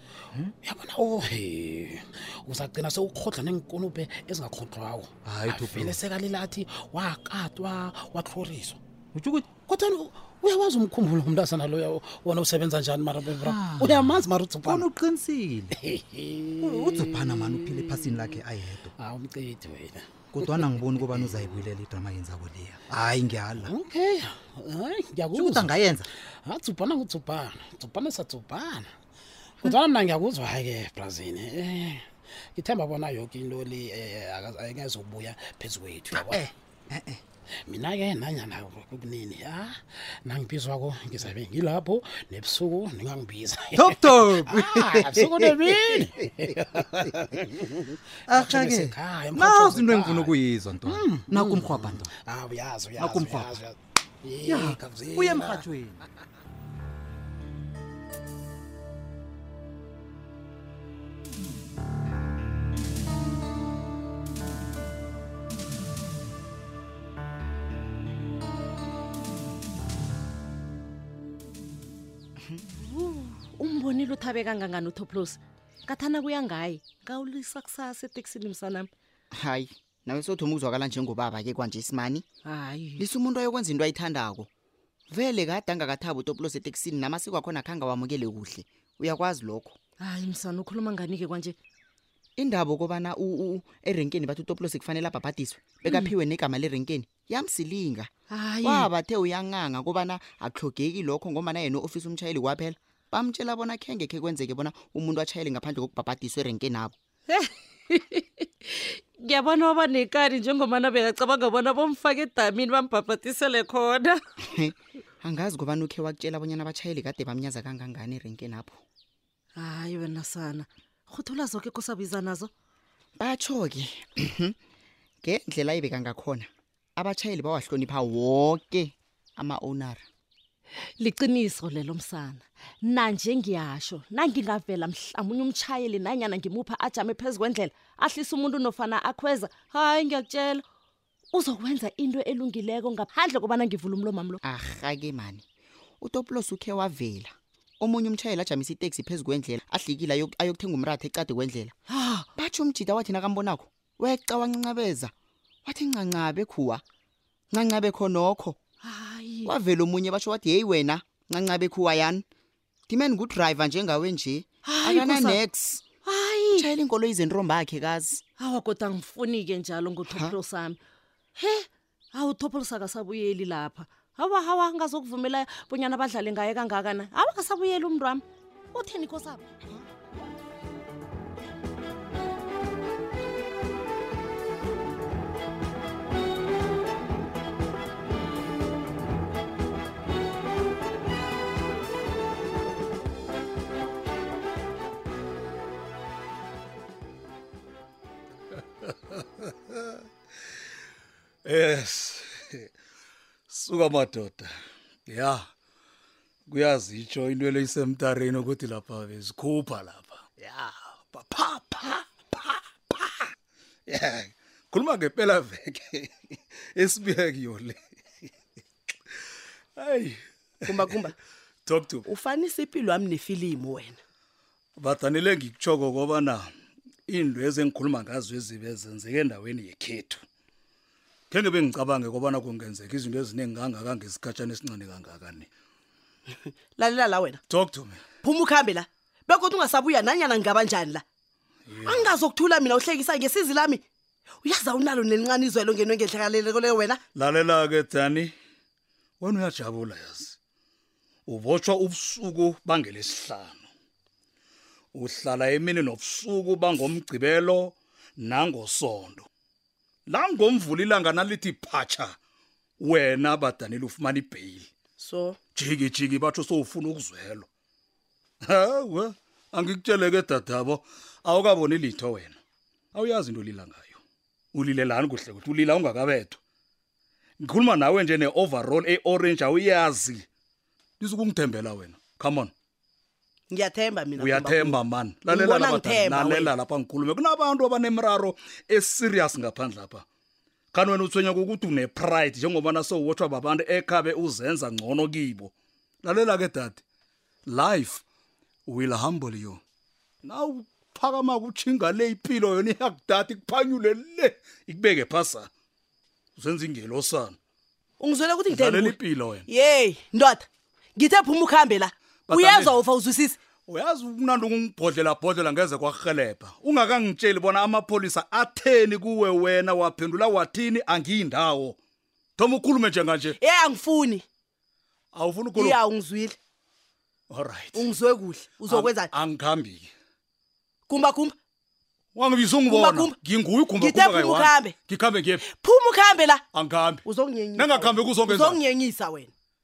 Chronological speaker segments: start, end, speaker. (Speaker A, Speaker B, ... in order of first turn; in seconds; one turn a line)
Speaker A: 0.6-8.8
Speaker B: 5.2-6.0
Speaker B: 9.2-9.5
Speaker A: 9.7-14.9
Speaker B: 13.3-15.8
Speaker A: 15.8-18.1
Speaker B: 16.6-18.9
Speaker A: 19.0-20.7
Speaker B: 20.3-23.7
Speaker A: 23.6-25.7
Speaker B: 25.3-26.1
Speaker A: 26.4-28.9
Speaker A: 29.6-36.4
Speaker B: 36.1-37.2
Speaker A: 37.7-55.6
Speaker B: 43.7-46.1
Speaker B: 48.3-52.1
Speaker B: 53.0-53.6
Speaker B: 54.5-56.0
Speaker C: 72.4-72.7
Speaker D: 72.8-78.9
Speaker C: 79.3-82.3
Speaker D: 82.5-83.0
Speaker C: 83.0-84.5
Speaker C: 85.1-89.8
Speaker D: 90.0-91.6
Speaker C: 92.4-98.1
Speaker D: 95.8-96.1
Speaker D: 98.3-98.9
Speaker C: 98.6-107.0
Speaker D: 107.3-114.2
Speaker C: 114.4-118.8
Speaker D: 119.6-122.5
Speaker C: 123.2-124.6
Speaker C: 125.2-130.1
Speaker D: 131.0-140.6
Speaker D: 141.3-144.4
Speaker C: 144.4-145.4
Speaker C: 146.0-151.8
Speaker D: 151.9-152.3
Speaker C: 152.4-155.1
Speaker C: 155.7-156.8
Speaker C: 157.5-158.6
Speaker D: 158.8-159.5
Speaker C: 159.5-162.2
Speaker C: 162.9-165.8
Speaker D: 164.7-165.4
Speaker D: 166.1-166.7
Speaker C: 166.6-168.2
Speaker D: 168.4-170.8
Speaker C: 170.1-170.3
Speaker D: 171.4-179.4
Speaker E: 198.5-200.0
Speaker E: 201.4-202.7
Speaker E: 203.5-204.5
Speaker E: 205.1-205.4
Speaker E: 206.5-213.3
Speaker E: 213.9-217.8
Speaker E: 219.8-220.2
Speaker F: 220.7-221.2
Speaker E: 221.7-222.0
Speaker F: 222.1-224.0
Speaker E: 224.8-226.5
Speaker E: 227.1-230.2
Speaker E: 231.3-235.5
Speaker F: 236.8-237.4
Speaker E: 237.5-238.0
Speaker F: 238.2-241.0
Speaker E: 241.7-242.2
Speaker F: 241.8-243.8
Speaker F: 244.4-247.0
Speaker E: 247.2-248.3
Speaker E: 249.2-250.4
Speaker E: 251.3-253.7
Speaker E: 254.9-259.3
Speaker E: 260.1-262.2
Speaker E: 262.8-264.7
Speaker F: 265.0-265.4
Speaker E: 265.6-267.5
Speaker E: 268.4-272.4
Speaker E: 272.9-274.0
Speaker E: 274.5-276.4
Speaker E: 277.4-280.2
Speaker E: 281.0-282.5
Speaker F: 283.5-286.5
Speaker E: 284.2-290.1
Speaker E: 290.7-296.8
Speaker E: 297.5-298.0
Speaker E: 298.7-299.6
Speaker E: 300.2-305.5
Speaker E: 306.4-307.4
Speaker F: 308.0-313.4
Speaker E: 308.5-309.4
Speaker E: 312.3-312.8
Speaker E: 313.7-321.8
Speaker E: 322.4-323.4
Speaker F: 323.4-324.2
Speaker E: 325.1-325.8
Speaker F: 325.6-326.4
Speaker E: 327.3-327.8
Speaker F: 327.7-329.1
Speaker E: 328.7-329.9
Speaker F: 330.9-331.4
Speaker E: 332.1-335.4
Speaker F: 332.7-333.2
Speaker F: 333.8-334.8
Speaker F: 335.4-336.4
Speaker E: 336.5-337.0
Speaker F: 337.1-339.3
Speaker E: 337.6-338.6